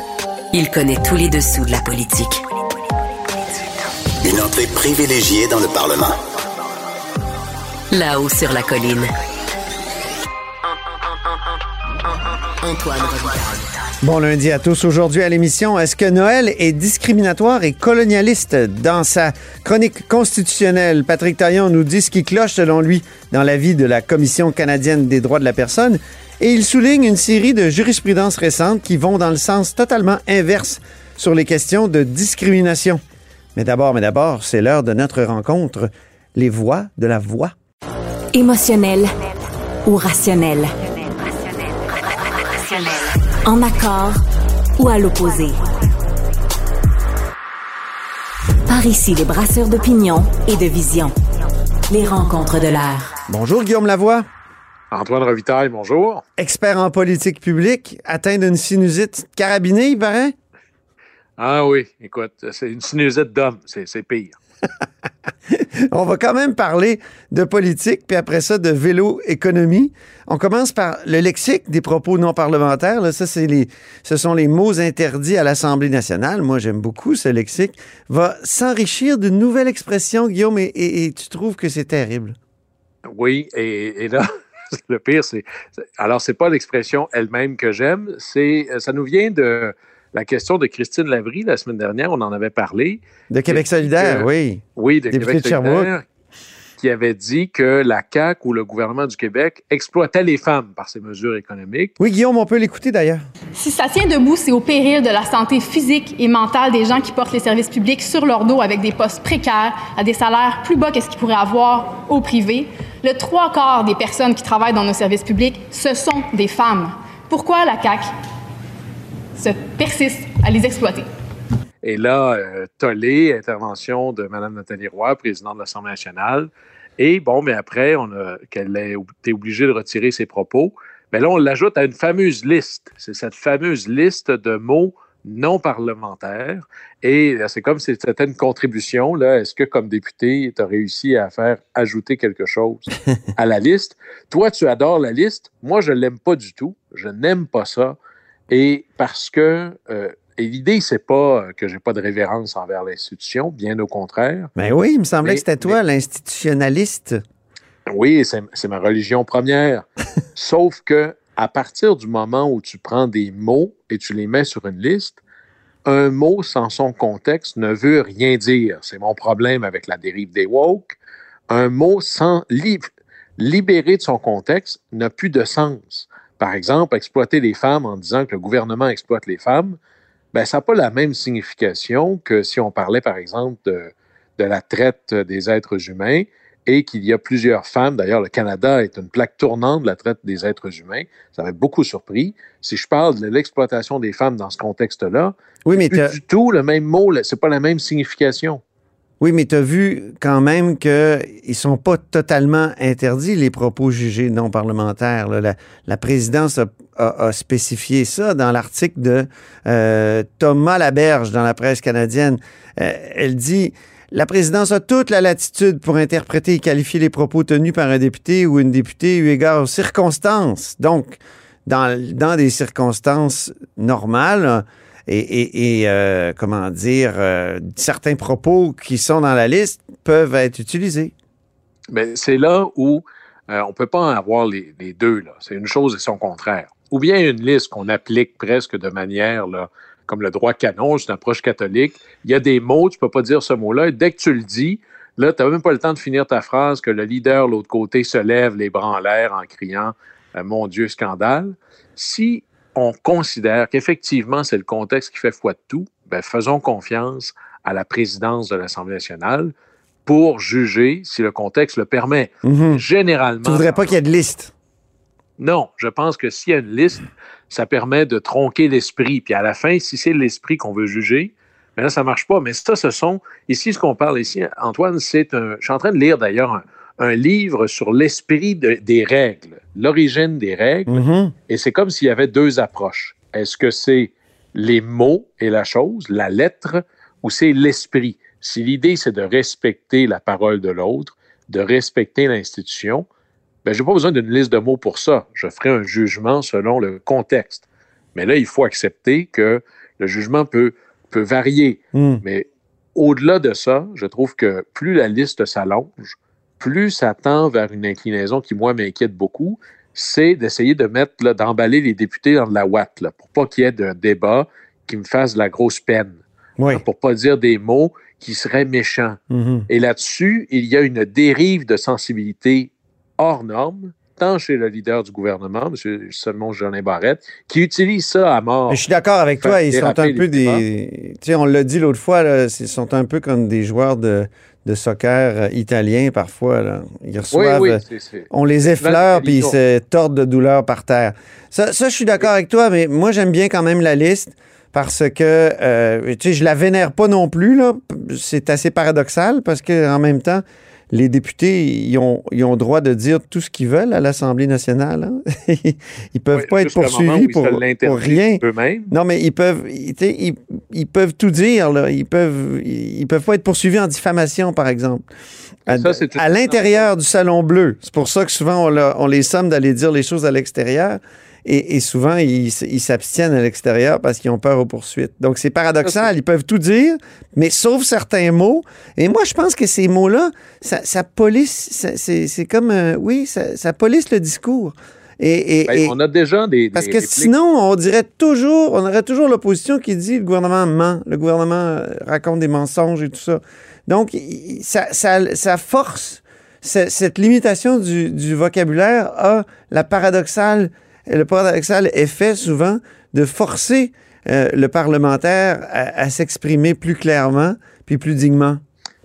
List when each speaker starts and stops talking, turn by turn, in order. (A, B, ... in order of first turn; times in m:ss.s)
0:00.5-0:02.4 A
0:04.2-0:06.2 B
0:07.9-0:09.1 A
0:12.6-0:13.7 A
0:14.0-0:33.0 C
0:33.5-0:37.5 C
0:38.3-0:39.1 A
0:39.8-0:40.7 A
0:41.4-0:44.2 A
0:44.8-0:45.6 A
0:48.7-0:51.1 A
0:51.9-0:53.2 A
0:53.3-0:54.3 C
0:54.9-0:56.2 D
0:56.4-1:00.3 C
1:01.4-1:04.4 D
1:05.5-1:22.4 C
1:23.1-1:25.4 D
1:26.0-1:36.0 D
1:33.3-1:35.9 C
1:36.8-1:41.9 D
1:42.0-1:43.2 C
1:43.6-1:58.1 E
1:59.4-2:01.1 E
2:01.8-2:28.0 D
2:28.5-2:34.5 D
2:34.6-2:37.2 C
2:35.2-2:35.8 D
2:37.9-2:45.2 D
2:45.8-2:51.0 D
2:51.5-2:52.9 D
2:53.4-2:59.8 D
3:00.3-3:18.6 D
3:15.6-3:16.2 C
3:19.2-3:51.1 C
3:51.9-4:19.5 D
4:20.0-4:23.9 D
4:22.4-4:22.8 C
4:23.4-4:24.5 C
4:25.4-4:53.0 D
4:40.9-4:41.3 C
4:53.6-5:28.8 D
5:01.9-5:02.2 C
5:16.6-5:16.8 C
5:19.3-5:19.7 C
5:28.7-6:05.1 C
5:29.4-5:30.6 D
5:37.3-5:39.6 D
5:56.3-5:58.9 D
6:05.7-6:26.0 C
6:05.7-6:06.9 D
6:15.8-6:16.1 D
6:25.7-6:27.3 D
6:26.7-6:48.6 C